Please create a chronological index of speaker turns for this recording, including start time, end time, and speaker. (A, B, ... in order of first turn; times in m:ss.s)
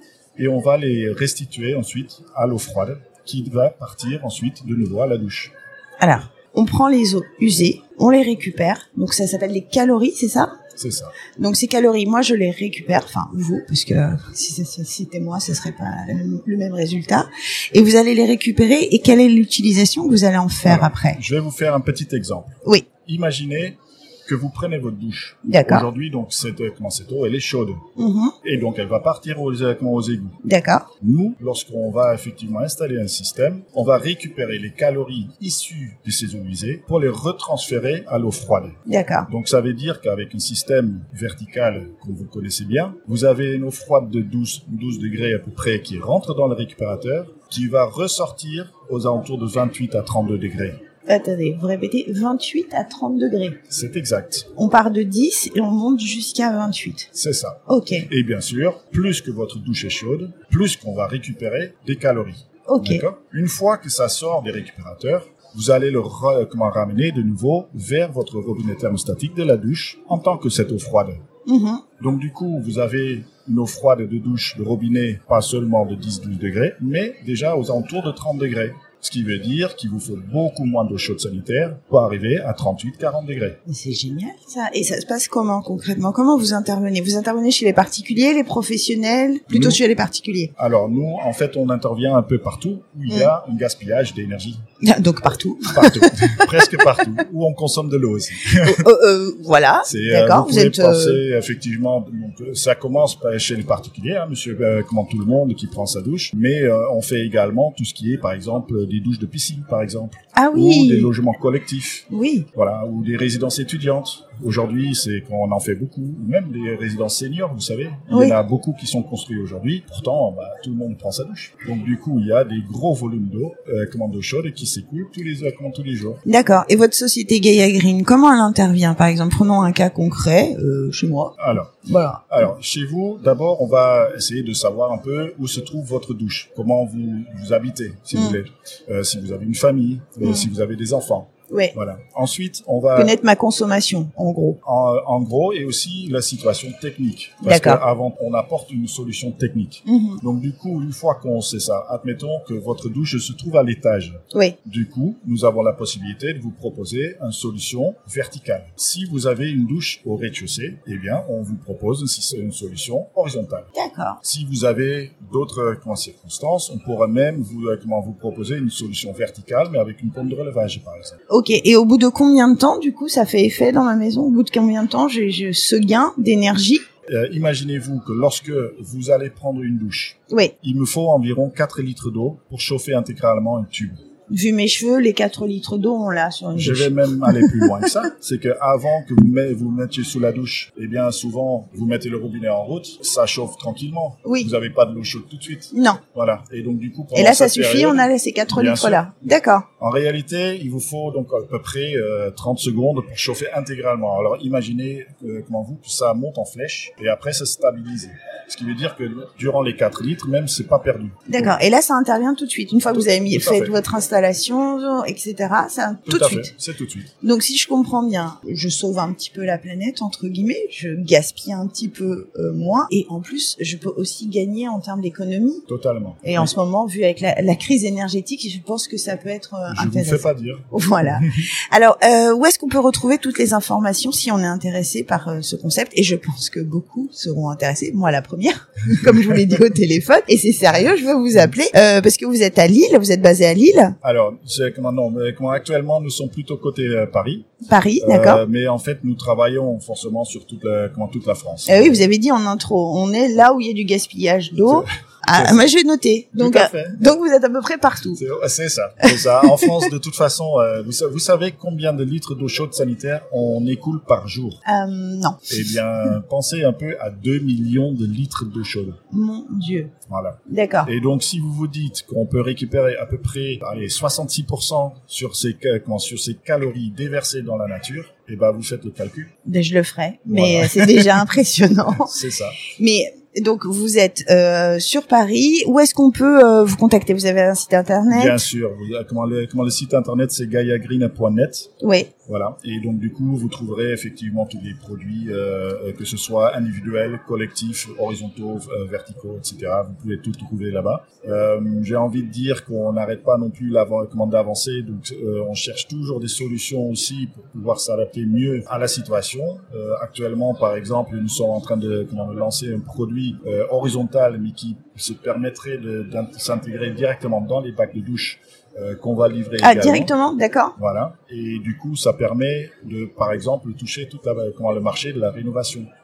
0:00.4-0:05.5 A
0:06.0-0:10.6 B
0:10.8-0:11.2 A
0:11.4-0:21.2 B
0:20.6-0:27.8 A
0:25.4-0:25.9 B
0:28.0-0:28.4 B
0:28.4-0:30.4 A
0:30.4-0:30.9 B
0:31.0-0:50.8 A
0:38.9-0:39.3 B
0:51.1-0:53.6 B
0:53.7-0:54.5 A
0:54.6-0:57.1 B
0:57.1-1:11.2 A
0:57.7-0:58.1 B
1:02.7-1:03.0 B
1:11.5-1:11.8 B
1:12.0-1:23.6 A
1:23.7-1:30.5 B
1:29.5-1:29.8 A
1:30.6-1:34.6 A
1:34.8-1:36.4 B
1:35.7-1:38.8 A
1:38.5-1:41.2 B
1:39.8-2:06.2 A
1:50.4-1:51.1 B
1:52.1-1:52.5 B
1:58.1-1:58.4 B
2:06.3-2:12.2 B
2:11.4-2:11.7 A
2:12.3-2:23.2 A
2:18.1-2:18.4 B
2:20.2-2:20.5 B
2:21.5-2:21.8 B
2:23.0-2:24.6 B
2:24.6-2:43.7 A
2:27.4-2:27.8 B
2:29.9-2:30.2 B
2:34.3-2:34.6 B
2:43.8-2:44.2 B
2:44.2-2:51.2 A
2:51.3-2:56.8 B
2:57.1-3:04.0 A
3:04.3-3:07.7 B
3:06.6-3:19.1 A
3:14.2-3:14.5 B
3:15.7-3:16.0 B
3:17.2-3:19.7 B
3:19.8-3:31.6 A
3:31.3-3:36.5 B
3:33.2-3:33.8 A
3:36.1-3:37.1 A
3:37.2-3:45.6 B
3:45.7-3:46.5 A
3:46.2-4:04.0 B
3:49.7-3:51.5 A
4:04.0-4:12.0 A
4:07.6-4:08.4 B
4:11.7-4:18.2 B
4:14.6-4:15.7 A
4:16.4-4:17.2 A
4:18.1-4:24.6 A
4:19.0-4:19.7 B
4:24.6-4:25.6 B
4:25.5-4:29.0 A
4:29.1-4:29.9 B
4:30.1-4:39.3 A
4:30.5-4:30.9 B
4:39.4-4:42.2 B
4:40.3-4:41.2 A
4:42.0-4:42.6 A
4:42.7-4:48.4 B
4:48.1-4:51.7 A
4:51.8-4:52.1 B
4:52.3-5:20.1 A
5:19.6-5:20.8 B
5:20.8-5:25.9 A